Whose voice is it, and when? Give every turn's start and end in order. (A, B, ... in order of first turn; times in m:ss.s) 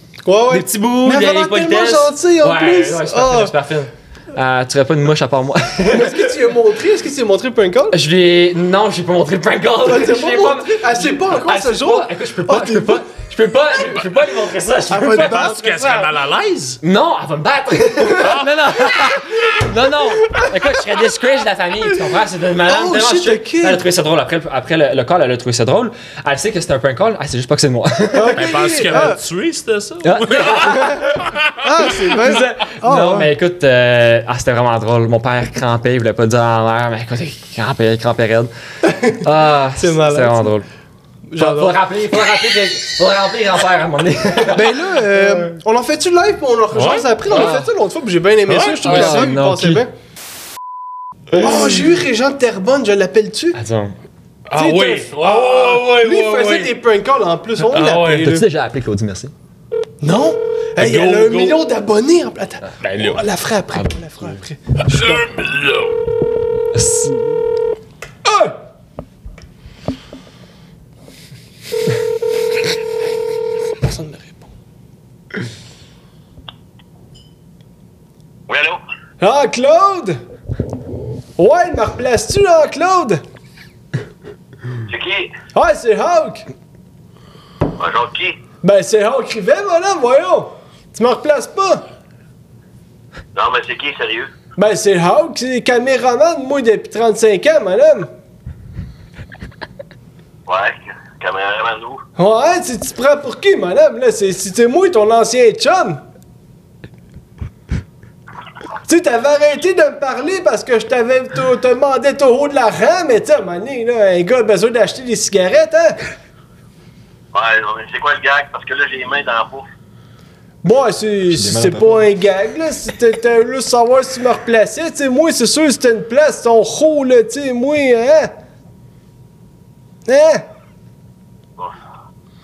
0:00.2-0:03.5 A
0:00.5-0:06.4 B
0:05.9-0:08.0 A
0:07.9-0:15.5 B
0:09.8-0:13.1 A
0:14.9-0:16.1 A
0:15.1-0:16.8 C
0:16.8-0:29.1 B
0:18.2-0:18.6 C
0:22.7-0:23.8 A
0:28.1-0:29.2 A
0:28.4-0:31.4 C
0:30.0-0:31.3 B
0:30.7-0:31.0 A
0:31.6-0:33.3 A
0:32.1-0:38.5 B
0:38.8-0:39.2 A
0:39.2-0:40.6 B
0:39.8-0:40.5 A
0:41.3-0:41.8 A
0:41.4-0:45.5 B
0:44.5-0:49.9 A
0:46.7-0:47.5 C
0:47.3-0:47.7 B
0:48.5-0:49.3 C
0:48.8-0:49.8 B
0:51.4-0:53.6 A
0:53.5-0:54.0 B
0:54.5-0:56.8 C
0:54.6-0:58.4 A
0:57.7-0:58.4 C
0:58.2-0:59.3 B
1:00.0-1:05.3 A
1:00.8-1:01.6 C
1:02.7-1:03.2 B
1:03.8-1:04.4 B
1:04.8-1:06.0 C
1:06.7-1:07.4 B
1:08.2-1:08.5 A
1:13.8-1:14.4 A
1:18.5-1:18.8 D
1:19.2-1:20.2 A
1:21.4-1:23.2 A
1:24.9-1:25.3 D
1:25.6-1:26.5 A
1:27.8-1:28.4 D
1:28.6-1:31.8 A
1:33.4-1:34.3 D
1:34.6-1:38.1 A
1:40.5-1:42.0 D
1:42.2-1:46.0 A
1:48.9-1:56.0 A
1:57.3-1:59.7 D
2:00.6-2:08.3 A
2:01.3-2:02.1 B
2:10.1-2:10.4 A